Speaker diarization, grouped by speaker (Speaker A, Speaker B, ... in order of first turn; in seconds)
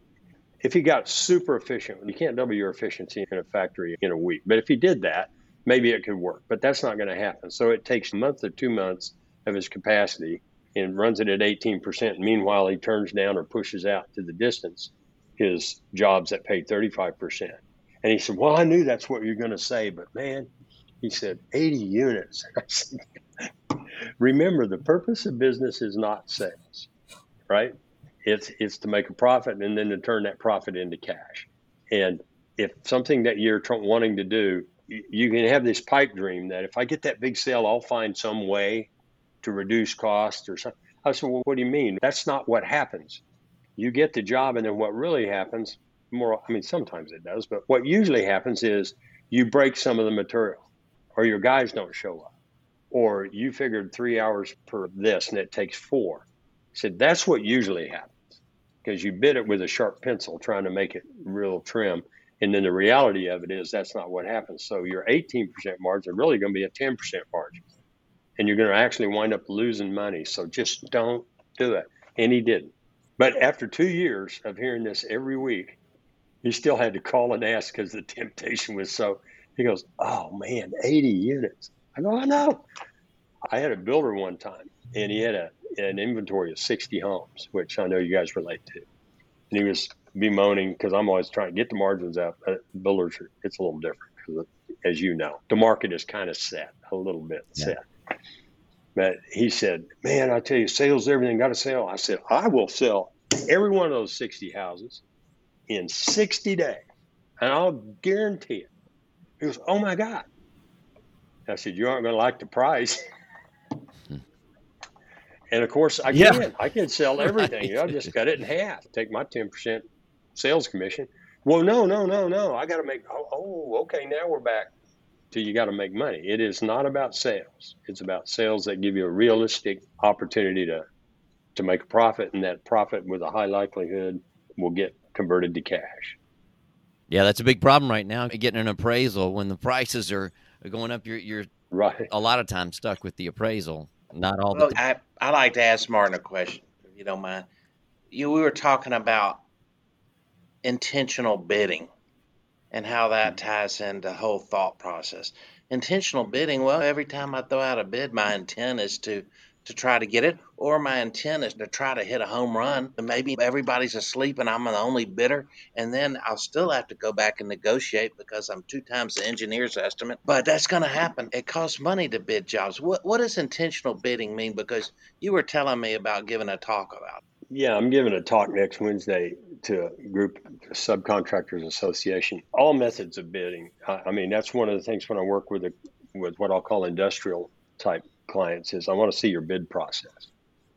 Speaker A: 0.6-20.5, 21.0-23.5, 24.2-26.9, 27.5-38.9, 39.4-43.2, 43.8-50.6, 51.2-52.3, 52.9-67.6, 68.4-75.8, 76.4-82.7, 83.5-88.8, 89.5-97.8, 99.0-105.0, 105.7-106.8, 107.4-108.7, 109.4-110.3, 111.5-113.1, 115.5-119.8, 120.3-124.7, 125.3-130.8, 131.6-136.2, 141.7-142.1, 177.5-190.3
Speaker B: 116.1-116.5, 117.3-117.7, 137.1-141.5, 142.1-144.8
Speaker C: 144.5-147.5, 148.1-149.4, 150.6-151.9, 152.7-177.2